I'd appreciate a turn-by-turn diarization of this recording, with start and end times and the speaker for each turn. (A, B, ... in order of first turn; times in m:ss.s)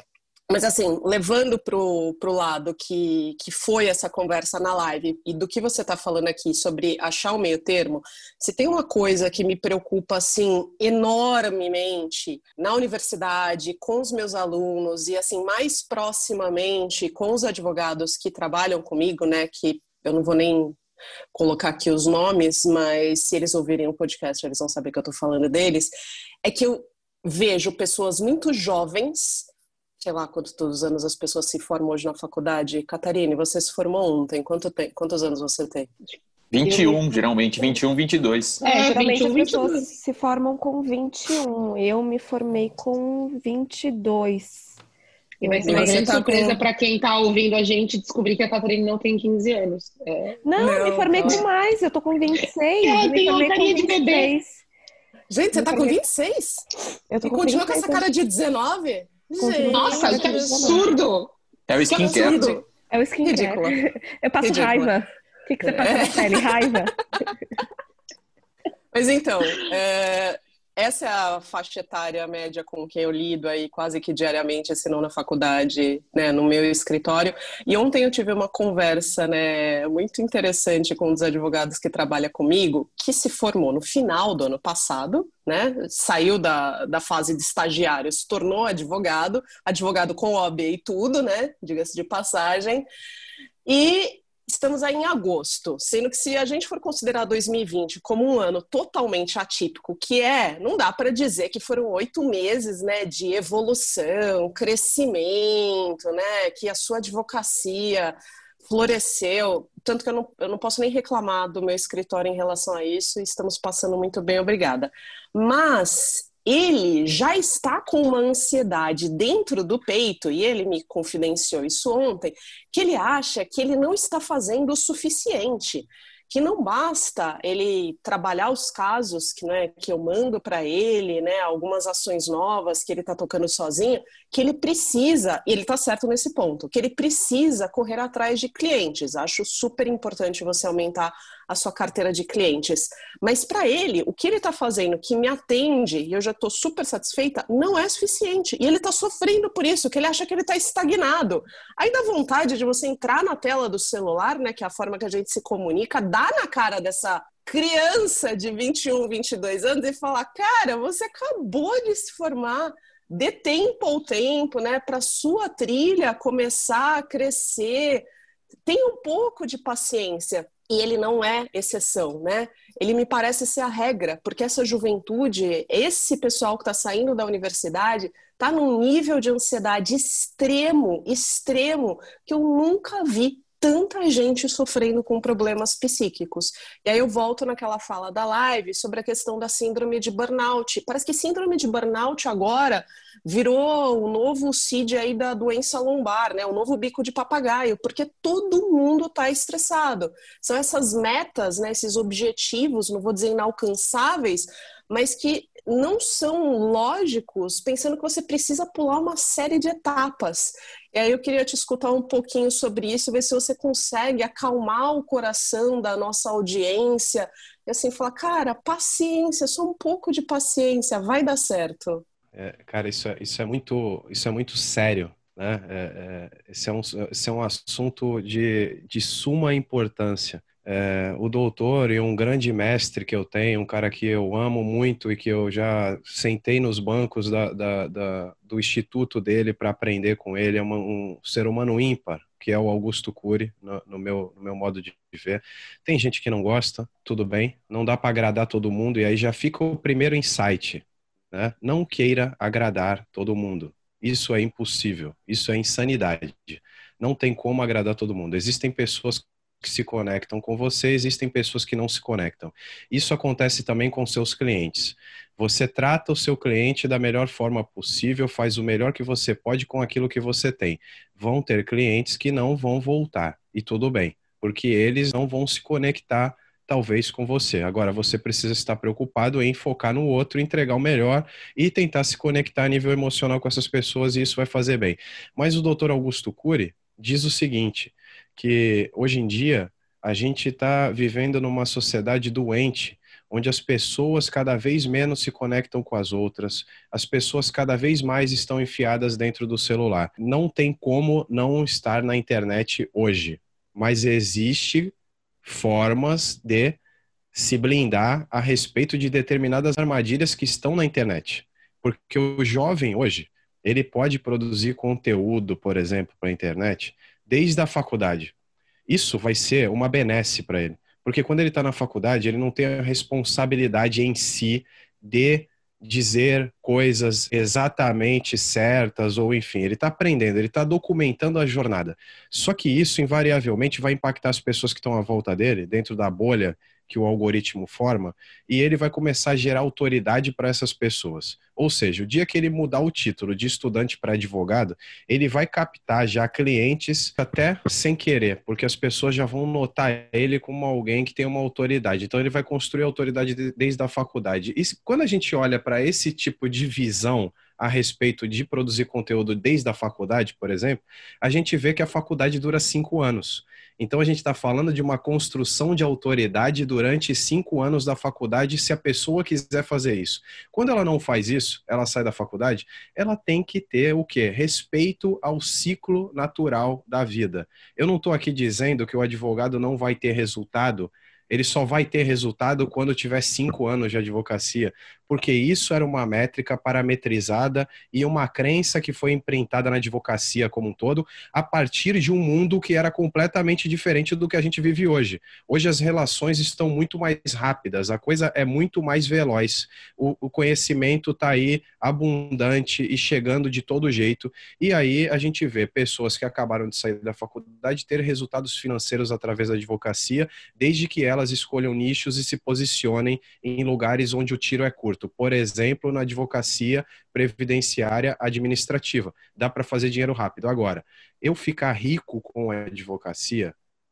0:00.5-0:20.8 A
0:21.3-0:29.5 A
0:30.0-0:35.9 A
0:36.5-0:38.6 B
0:36.7-0:37.0 C
0:38.6-0:39.9 D
0:38.6-0:44.8 C
0:45.4-0:50.4 D
0:45.4-0:46.0 C
0:45.6-0:46.6 A
0:50.4-0:54.6 C
0:50.6-0:51.5 A
0:52.8-0:54.3 D
0:55.3-0:56.7 A
0:55.5-0:56.0 C
0:57.1-0:58.0 C
0:57.2-1:00.9 A
0:59.4-1:01.0 C
0:59.7-1:01.3 D
1:01.7-1:02.6 B
1:01.9-1:02.6 D
1:01.9-1:02.6 A
1:02.9-1:07.4 C
1:03.2-1:03.8 A
1:04.4-1:05.0 A
1:05.6-1:06.6 A
1:08.9-1:32.9 A
1:33.7-2:48.1 A
2:48.7-3:42.0 A
3:42.3-5:04.9 E
5:05.4-5:06.8 E
5:07.3-5:18.3 E
5:18.9-7:03.6 E